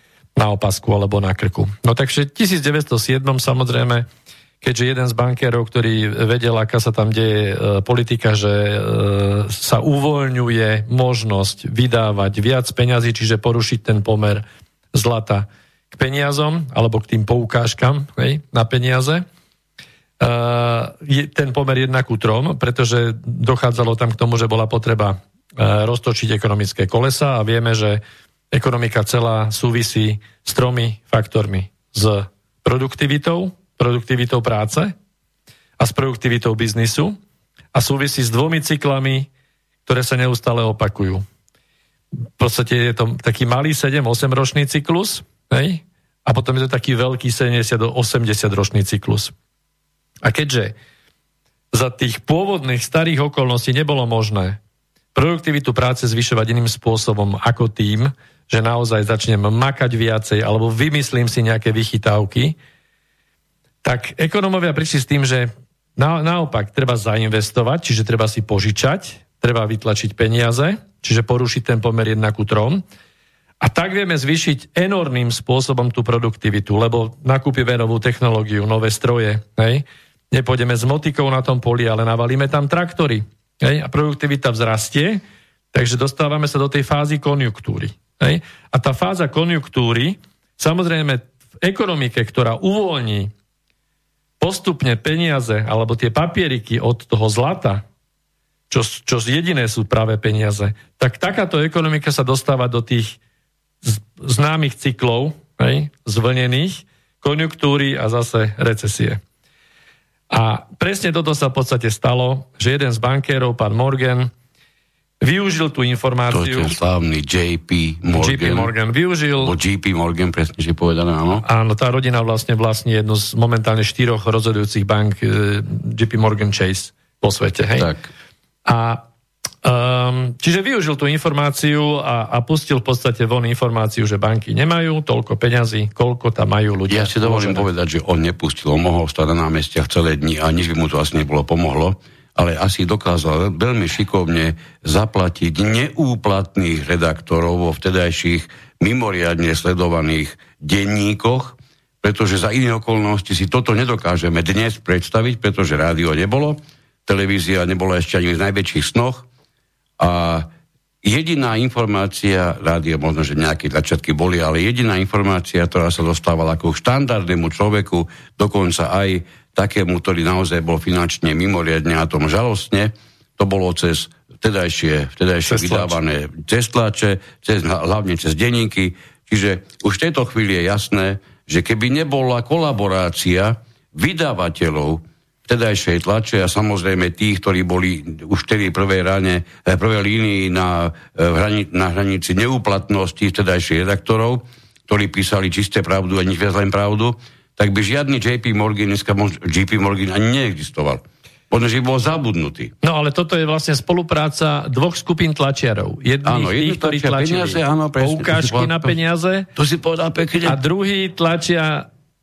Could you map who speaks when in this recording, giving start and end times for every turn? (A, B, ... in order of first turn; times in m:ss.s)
0:00.4-0:04.1 A
0:04.6-0:19.2 A
0:20.2-0:28.0 A
0:28.5-0:34.9 A
0:35.8-0:37.2 A
0:37.7-0:39.3 A
0:39.8-0:41.2 A
0:42.4-0:49.3 A
0:50.2-0:50.7 A
0:51.7-0:54.6 A
0:55.1-1:02.6 A
1:03.8-1:12.8 A
1:13.6-1:25.2 A
1:25.7-1:33.3 A
1:34.4-1:37.8 A
1:38.7-1:43.2 A
1:43.8-1:49.2 A
1:50.3-1:54.3 A
1:55.2-1:56.8 A
1:56.3-1:58.7 B
1:58.1-1:59.5 A
1:59.4-2:01.4 B
2:01.4-2:07.9 A
2:07.8-2:08.1 B
2:08.6-2:09.0 A
2:09.6-2:17.7 A
2:16.9-2:39.3 B
2:40.0-2:40.5 B
2:41.0-3:22.7 B
2:55.4-2:56.0 A
3:22.8-3:29.5 A
3:26.2-3:29.0 B
3:29.6-3:30.6 B
3:30.4-3:31.9 A